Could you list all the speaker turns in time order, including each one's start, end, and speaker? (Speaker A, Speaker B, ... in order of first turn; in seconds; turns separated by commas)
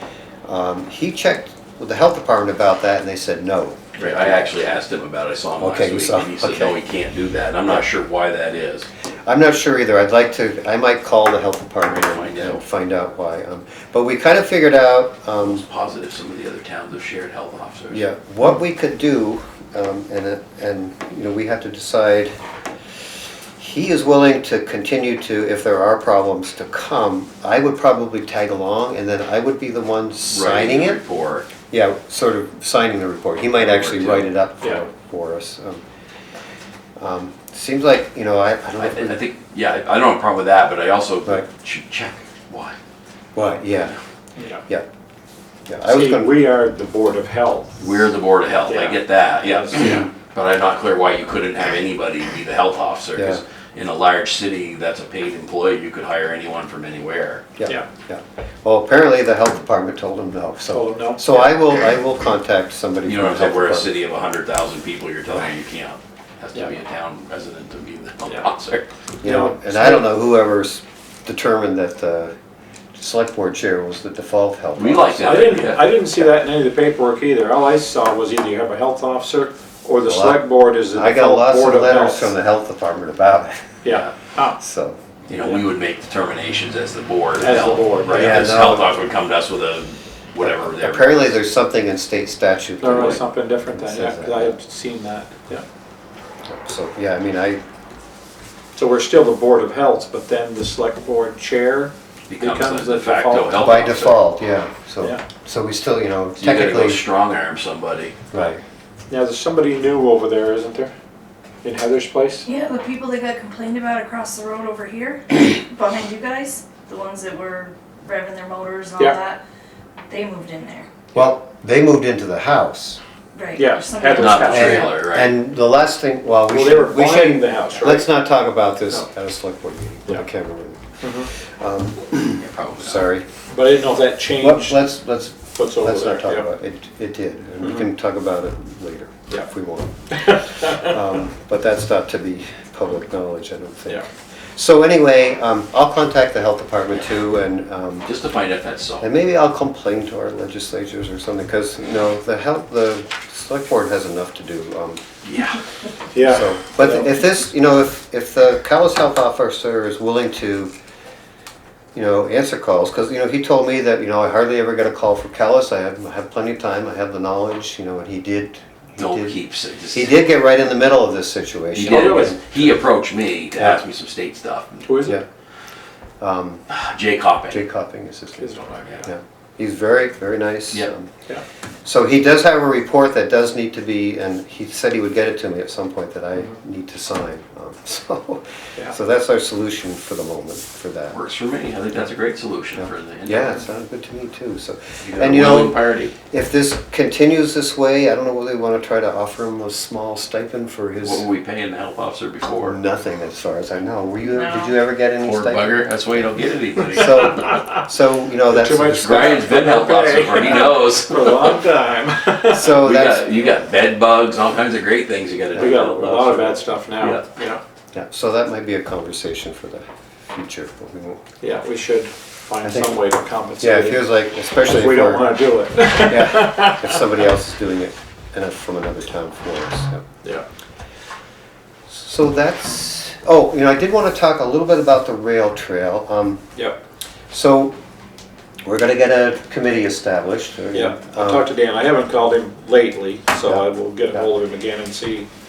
Speaker A: 0.5-4.5, Speaker B: 4.0-8.9, Speaker A: 5.6-6.8, Speaker A: 9.3-15.6, Speaker B: 11.8-12.6, Speaker B: 15.4-18.1, Speaker A: 17.9-22.3, Speaker A: 23.6-31.0, Speaker B: 30.3-31.5, Speaker A: 31.7-35.8, Speaker B: 33.6-34.3, Speaker A: 37.0-39.2, Speaker B: 38.8-42.8, Speaker A: 43.4-44.0, Speaker C: 44.4-44.6, Speaker A: 45.7-46.4, Speaker C: 45.8-47.9, Speaker B: 47.8-57.5, Speaker C: 48.7-50.0, Speaker A: 53.2-53.4, Speaker A: 57.6-63.9, Speaker C: 60.7-61.5, Speaker B: 63.1-68.9, Speaker A: 69.2-72.3, Speaker C: 69.2-70.1, Speaker A: 73.0-75.7, Speaker B: 74.8-75.9, Speaker C: 75.2-82.3, Speaker A: 80.1-83.8, Speaker C: 83.8-84.6, Speaker A: 84.6-85.0, Speaker B: 85.3-91.3, Speaker C: 87.4-88.5, Speaker A: 88.1-88.9, Speaker A: 90.4-94.6, Speaker C: 92.8-95.6, Speaker A: 96.5-97.6, Speaker C: 98.8-104.0, Speaker B: 102.3-104.2, Speaker A: 103.6-107.0, Speaker B: 106.4-108.2, Speaker A: 108.3-108.6, Speaker C: 109.1-110.9, Speaker C: 111.6-112.5, Speaker D: 112.4-119.4, Speaker D: 120.1-120.9, Speaker A: 121.1-123.0, Speaker D: 123.3-124.9, Speaker C: 123.6-124.8, Speaker B: 124.2-125.4, Speaker A: 124.5-133.2, Speaker C: 126.5-128.1, Speaker C: 131.0-131.3, Speaker B: 132.4-133.1, Speaker C: 133.5-134.8, Speaker A: 134.4-148.1, Speaker C: 135.6-136.5, Speaker C: 140.1-140.9, Speaker B: 148.1-149.1, Speaker A: 149.0-155.0, Speaker B: 155.2-155.6, Speaker C: 156.1-157.1, Speaker A: 156.2-160.7, Speaker A: 161.9-169.4, Speaker B: 169.0-170.2, Speaker A: 169.9-172.4, Speaker B: 171.8-175.0, Speaker C: 171.8-172.4, Speaker C: 174.8-175.2, Speaker A: 176.2-176.7, Speaker B: 176.7-177.6, Speaker A: 177.5-181.1, Speaker C: 178.4-179.1, Speaker A: 181.8-191.2, Speaker B: 191.1-193.7, Speaker A: 192.8-201.3, Speaker B: 195.0-196.1, Speaker B: 201.0-202.8, Speaker A: 202.5-205.9, Speaker D: 204.3-204.7, Speaker B: 205.2-207.4, Speaker A: 206.9-209.5, Speaker C: 208.5-212.8, Speaker B: 209.0-211.6, Speaker A: 212.5-213.4, Speaker B: 212.6-216.2, Speaker A: 215.5-216.7, Speaker C: 215.6-217.6, Speaker B: 217.0-217.3, Speaker A: 217.9-221.2, Speaker C: 221.4-224.0, Speaker A: 222.6-223.0, Speaker A: 223.6-225.4, Speaker C: 224.6-227.1, Speaker A: 225.9-230.0, Speaker A: 231.9-236.4, Speaker A: 237.3-237.8, Speaker A: 238.7-241.5, Speaker C: 240.7-245.3, Speaker A: 243.4-244.3